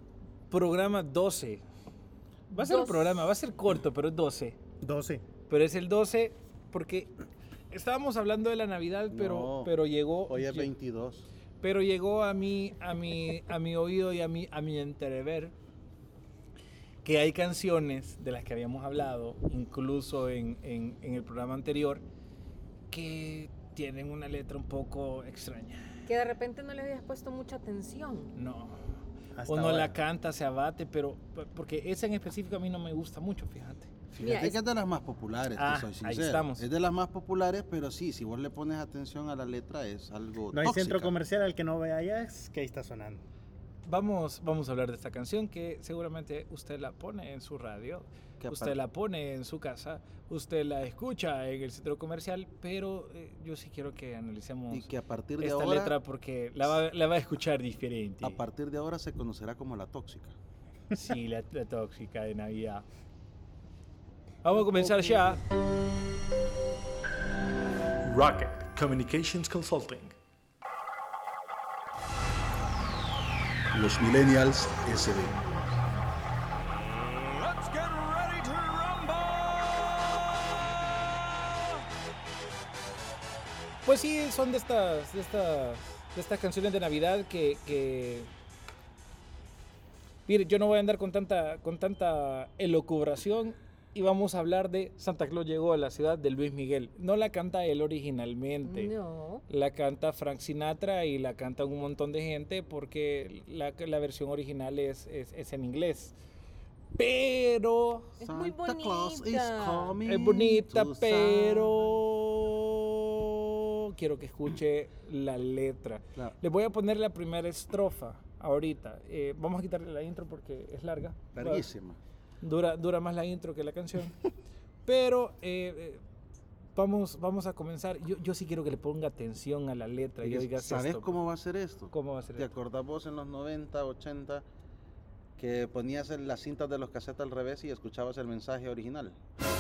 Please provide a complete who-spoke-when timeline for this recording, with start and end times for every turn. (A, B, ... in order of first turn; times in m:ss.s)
0:00.5-0:01.6 A
0:02.5-0:04.6 A
0:02.5-0:03.3 B
0:04.8-0:05.2 C
0:05.5-0:07.1 A
0:07.7-0:10.7 A
0:09.1-0:09.7 D
0:10.3-0:11.3 D
0:11.6-0:15.6 A
0:17.0-0:22.0 A
0:22.9-0:26.0 A
0:26.1-0:28.3 B
0:28.4-0:28.8 A
0:29.4-0:29.9 C
0:29.5-0:33.9 A
0:34.2-0:41.1 D
0:34.2-0:34.6 B
0:35.6-0:35.9 C
0:35.8-0:36.6 A
0:40.5-0:43.2 C
0:43.8-0:58.4 A
0:48.4-0:48.8 D
0:54.7-0:56.0 D
0:58.2-1:00.3 D
1:00.9-1:02.8 A
1:04.4-1:05.4 A
1:08.0-1:10.1 A
1:13.7-1:15.4 D
1:17.4-1:19.8 A
1:23.8-1:28.3 A
1:30.3-1:38.9 A
1:38.6-1:39.4 B
1:39.5-1:46.2 A
1:47.0-1:48.2 A
1:48.2-1:50.0 B
1:48.2-1:51.7 D
1:50.1-2:01.7 A
2:01.4-2:02.0 D
2:02.4-2:04.2 A
2:04.8-2:06.0 A
2:06.8-2:11.2 A
2:10.2-2:14.4 D
2:11.9-2:12.5 A
2:15.4-2:19.2 D